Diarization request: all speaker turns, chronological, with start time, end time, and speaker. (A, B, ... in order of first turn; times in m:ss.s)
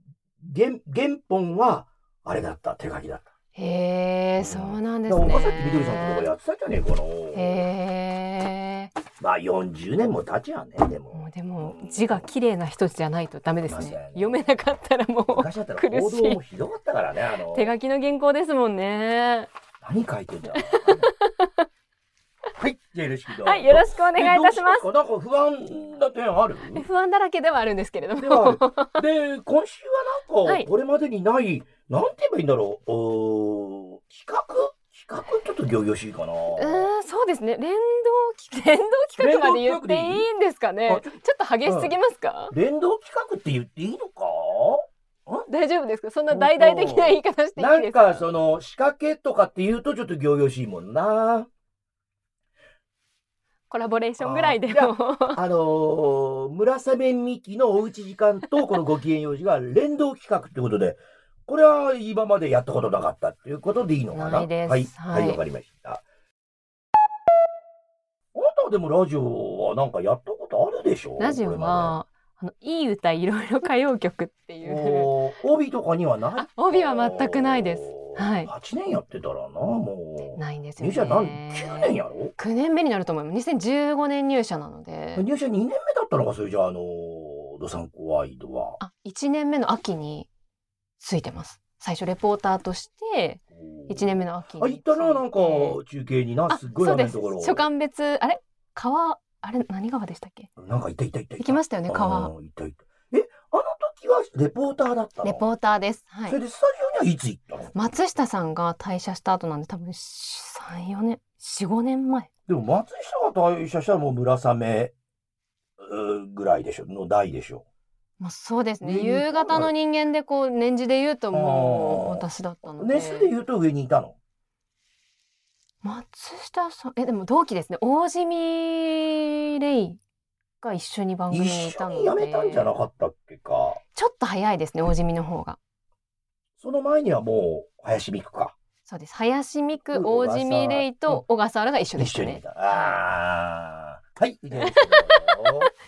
0:00.4-0:03.3 A
0:03.6-0:06.3 B
0:04.4-0:07.7 A
0:07.3-0:08.9 B
0:09.2-0:12.3 A
0:11.1-0:16.4 B
0:13.6-0:14.6 A
0:15.3-0:17.7 A
0:17.5-0:19.5 B
0:19.8-0:21.1 A
0:20.8-0:21.5 B
0:22.6-0:26.9 A
0:23.4-0:24.8 B
0:26.8-0:29.0 B
0:28.2-0:36.9 A
0:36.6-0:42.5 B
0:39.2-0:40.3 A
0:41.6-0:42.0 A
0:42.5-0:45.5 A
0:45.5-0:48.2 B
0:46.3-0:51.5 A
0:53.7-0:55.4 B
0:54.2-1:06.0 A
1:04.1-1:05.4 B
1:08.3-1:12.0 A
1:11.2-1:15.1 B
1:14.6-1:22.4 A
1:16.4-1:18.5 B
1:20.3-1:25.3 B
1:25.2-1:28.8 A
1:28.8-1:30.3 B
1:31.0-1:35.8 B
1:33.5-1:37.7 A
1:36.5-1:40.5 B
1:40.6-1:45.5 A
1:41.4-1:42.3 B
1:45.2-1:46.4 B
1:46.3-1:47.7 A
1:47.7-1:52.3 B
1:52.5-1:54.9 A
1:55.8-1:57.6 A
1:58.2-2:03.3 B
1:58.8-1:59.8 A
2:01.3-2:04.2 A
2:05.8-2:10.0 B
2:10.6-2:12.7 B
2:11.3-2:13.8 A
2:14.0-2:15.6 B
2:16.6-2:18.6 A
2:18.9-2:23.0 B
2:19.8-2:21.2 A
2:22.0-2:25.7 A
2:24.6-2:25.2 B